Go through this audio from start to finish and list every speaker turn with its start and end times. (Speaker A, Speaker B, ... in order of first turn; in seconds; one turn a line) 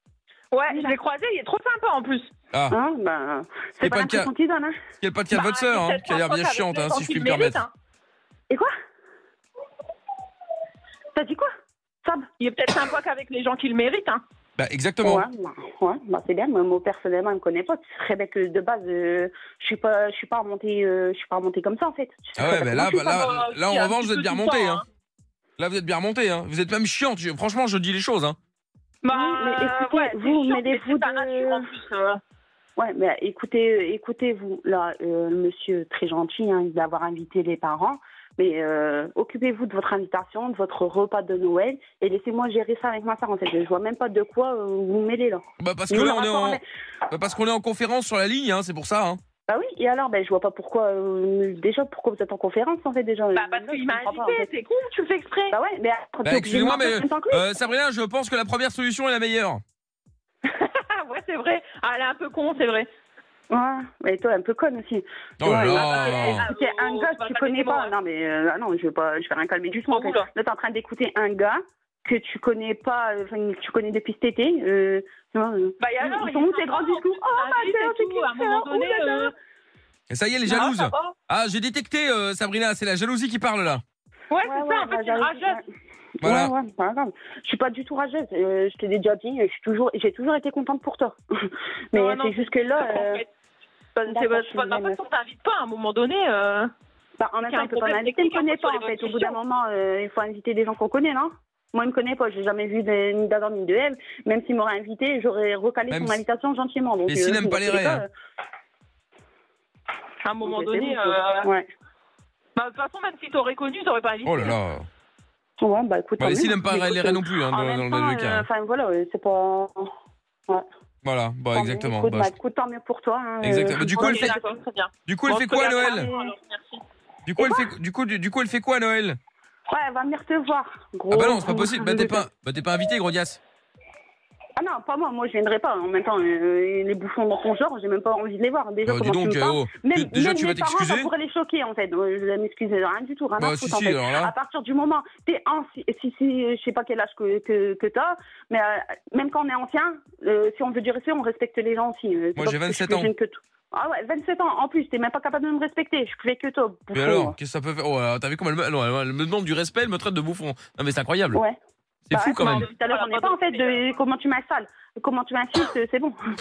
Speaker A: 0.5-2.3
Speaker B: 0.7-1.0
Speaker B: 2.7-4.7
Speaker C: 3.8-4.3
Speaker C: 5.0-7.6
Speaker A: 5.3-7.7
Speaker B: 11.1-11.5
Speaker A: 12.4-14.2
Speaker C: 14.6-15.2
Speaker B: 15.0-23.2
Speaker C: 22.4-24.8
Speaker A: 22.8-24.8
Speaker C: 25.6-28.4
Speaker A: 29.0-32.2
Speaker B: 29.1-31.7
Speaker B: 32.8-46.6
Speaker C: 45.6-49.2
Speaker B: 49.5-54.4
Speaker A: 53.3-55.5
Speaker B: 55.5-57.4
Speaker C: 56.2-59.6
Speaker A: 60.5-62.9
Speaker B: 63.5-79.3
Speaker C: 65.4-66.5
Speaker A: 65.7-67.9
Speaker A: 69.9-70.3
Speaker A: 75.8-79.3
Speaker C: 80.1-83.8
Speaker A: 80.5-81.1
Speaker A: 84.3-85.6
Speaker B: 84.4-85.6
Speaker C: 86.2-86.5
Speaker B: 86.2-93.2
Speaker A: 91.9-93.3
Speaker A: 93.9-96.7
Speaker B: 94.1-95.0
Speaker B: 97.2-108.1
Speaker A: 97.5-99.4
Speaker C: 105.9-106.2
Speaker C: 107.1-108.0
Speaker A: 110.2-111.5
Speaker B: 110.4-111.7
Speaker A: 112.5-114.5
Speaker C: 114.2-114.9
Speaker B: 115.6-119.9
Speaker C: 116.2-118.4
Speaker C: 121.0-122.3
Speaker B: 121.5-124.5
Speaker C: 123.4-124.3
Speaker A: 123.7-126.8
Speaker C: 125.1-126.1
Speaker B: 125.6-126.3
Speaker C: 127.2-129.2
Speaker B: 129.7-132.2
Speaker C: 131.1-133.4
Speaker B: 134.6-157.3
Speaker C: 138.8-141.1
Speaker C: 143.4-144.3
Speaker C: 152.3-153.1
Speaker C: 156.9-161.4
Speaker B: 161.3-161.6
Speaker C: 162.1-162.7
Speaker B: 162.1-166.2
Speaker A: 162.4-163.9